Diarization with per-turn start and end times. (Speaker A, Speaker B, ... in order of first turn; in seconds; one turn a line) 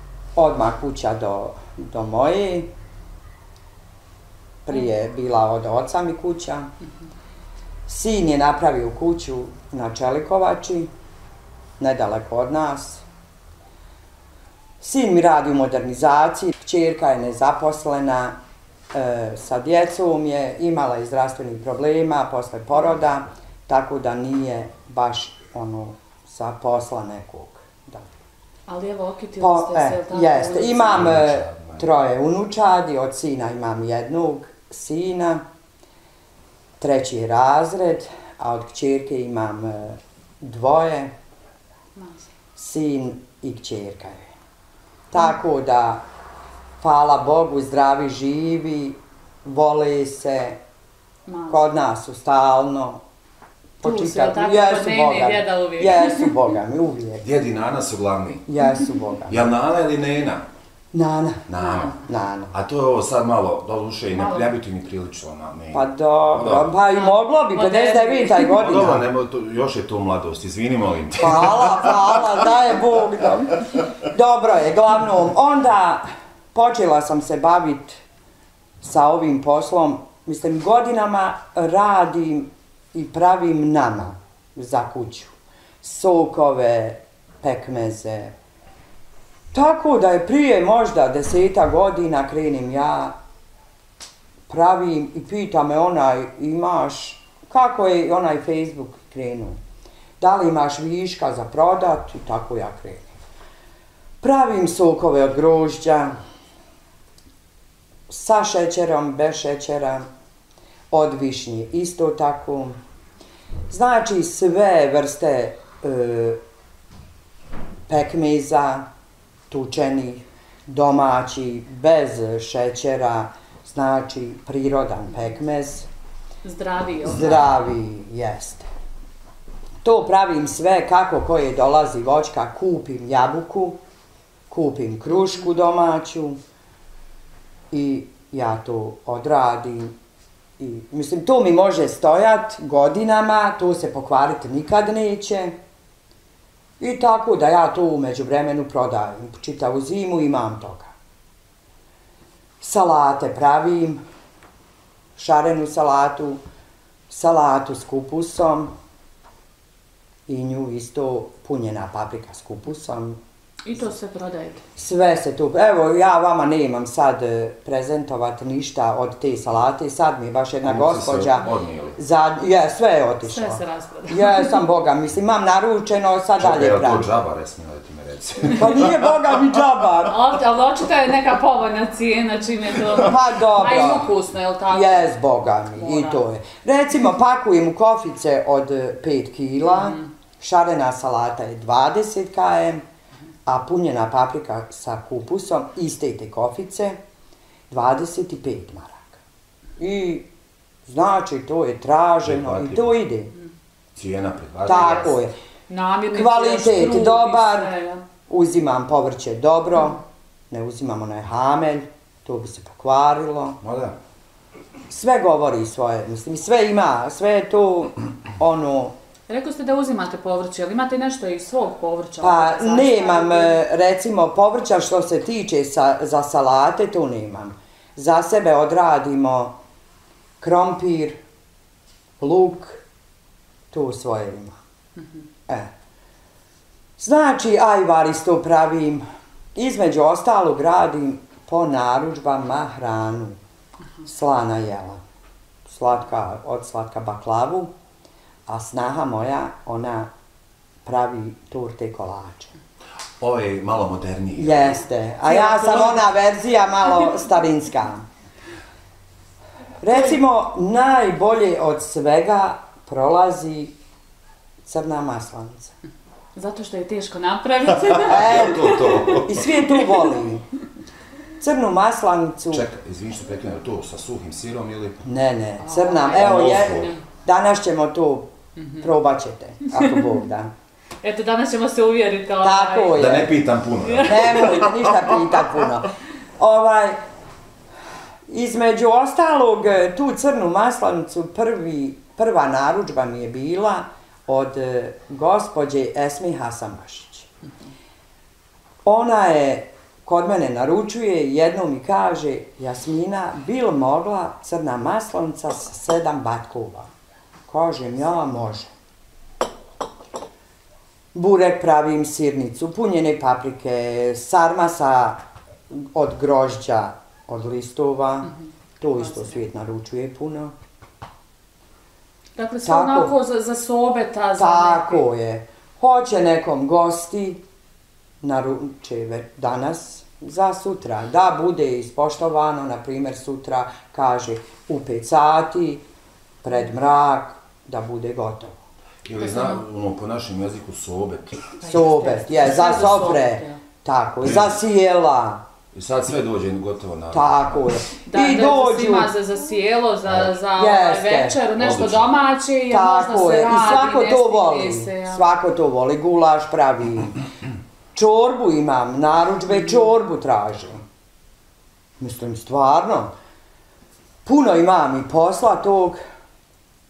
Speaker A: 0.3-2.7
Speaker A: 4.6-6.7
Speaker A: 7.9-10.9
Speaker A: 11.8-13.0
Speaker A: 14.8-18.4
Speaker A: 18.9-28.1
Speaker B: 28.7-31.1
Speaker A: 29.4-35.4
Speaker C: 30.8-31.9
Speaker A: 36.8-41.1
Speaker B: 42.0-42.2
Speaker A: 42.5-44.3
Speaker A: 45.1-46.0
Speaker A: 46.8-50.6
Speaker B: 51.3-51.7
Speaker A: 51.5-53.0
Speaker A: 53.8-57.2
Speaker B: 53.8-56.3
Speaker C: 57.2-58.4
Speaker A: 58.5-59.5
Speaker C: 59.3-60.5
Speaker A: 60.9-62.5
Speaker C: 61.5-62.0
Speaker C: 62.5-66.7
Speaker B: 64.1-64.5
Speaker A: 65.7-69.0
Speaker B: 66.9-68.5
Speaker C: 68.6-72.3
Speaker A: 71.2-78.0
Speaker A: 78.8-88.3
Speaker A: 89.5-93.2
Speaker A: 94.5-99.6
Speaker A: 100.2-103.1
Speaker A: 104.2-106.1
Speaker A: 108.1-110.1
Speaker A: 110.9-112.8
Speaker A: 113.7-116.4
Speaker A: 117.9-118.9
Speaker A: 119.5-125.9
Speaker B: 126.4-127.5
Speaker A: 127.0-128.7
Speaker A: 129.8-133.8
Speaker A: 134.5-136.4
Speaker A: 137.7-139.9
Speaker A: 140.6-145.6
Speaker A: 146.8-150.9
Speaker A: 152.6-154.0
Speaker A: 155.2-156.4
Speaker A: 157.1-158.7
Speaker A: 160.3-163.2
Speaker B: 163.6-164.6
Speaker A: 164.8-171.4
Speaker C: 170.6-172.0
Speaker A: 172.0-177.1
Speaker B: 173.2-174.6
Speaker C: 176.4-179.1
Speaker A: 178.5-180.2
Speaker B: 180.1-185.1
Speaker A: 183.0-184.1
Speaker A: 184.7-192.8
Speaker B: 185.8-186.2
Speaker B: 189.7-190.1
Speaker A: 193.4-197.0
Speaker A: 197.7-199.2
Speaker A: 199.8-200.3
Speaker A: 200.8-203.3
Speaker C: 202.2-203.0
Speaker C: 203.9-205.2
Speaker A: 204.6-205.3
Speaker B: 204.7-205.2
Speaker B: 205.7-208.0
Speaker A: 206.1-207.7
Speaker A: 208.3-213.6
Speaker C: 213.6-213.9
Speaker A: 214.9-218.9
Speaker B: 219.3-223.6
Speaker A: 222.2-229.6
Speaker A: 230.4-231.2
Speaker A: 232.2-232.8
Speaker A: 233.7-234.6
Speaker A: 237.0-243.4
Speaker A: 244.0-245.0
Speaker A: 245.7-247.7
Speaker A: 248.5-250.1
Speaker A: 250.8-252.5
Speaker C: 253.2-254.8
Speaker A: 254.4-258.0
Speaker B: 255.2-256.1
Speaker A: 259.8-263.7
Speaker A: 264.6-265.7
Speaker B: 266.3-268.7
Speaker C: 267.8-269.5
Speaker A: 268.0-270.4
Speaker A: 271.4-272.6
Speaker C: 272.5-275.0
Speaker A: 275.0-280.5
Speaker B: 275.6-277.0
Speaker C: 276.1-276.9
Speaker B: 278.6-278.8
Speaker B: 279.7-280.1
Speaker B: 281.0-283.2
Speaker A: 282.4-283.4
Speaker C: 282.9-284.9
Speaker B: 283.8-284.7
Speaker A: 284.0-287.0
Speaker A: 288.3-297.3
Speaker A: 298.8-306.9
Speaker A: 307.5-308.7
Speaker A: 311.1-320.5
Speaker B: 319.0-319.4
Speaker B: 322.4-325.0
Speaker A: 322.6-323.1
Speaker A: 324.4-327.4
Speaker A: 328.2-335.8
Speaker A: 336.4-338.6
Speaker C: 339.0-341.6
Speaker B: 339.2-339.6
Speaker B: 341.6-343.6
Speaker A: 341.6-345.4
Speaker C: 344.2-344.6
Speaker C: 345.7-347.6
Speaker A: 347.1-349.1
Speaker B: 348.1-355.2
Speaker A: 350.5-351.4
Speaker C: 351.6-352.1
Speaker A: 352.7-357.2
Speaker A: 357.9-360.8
Speaker A: 362.0-363.1
Speaker A: 364.2-366.0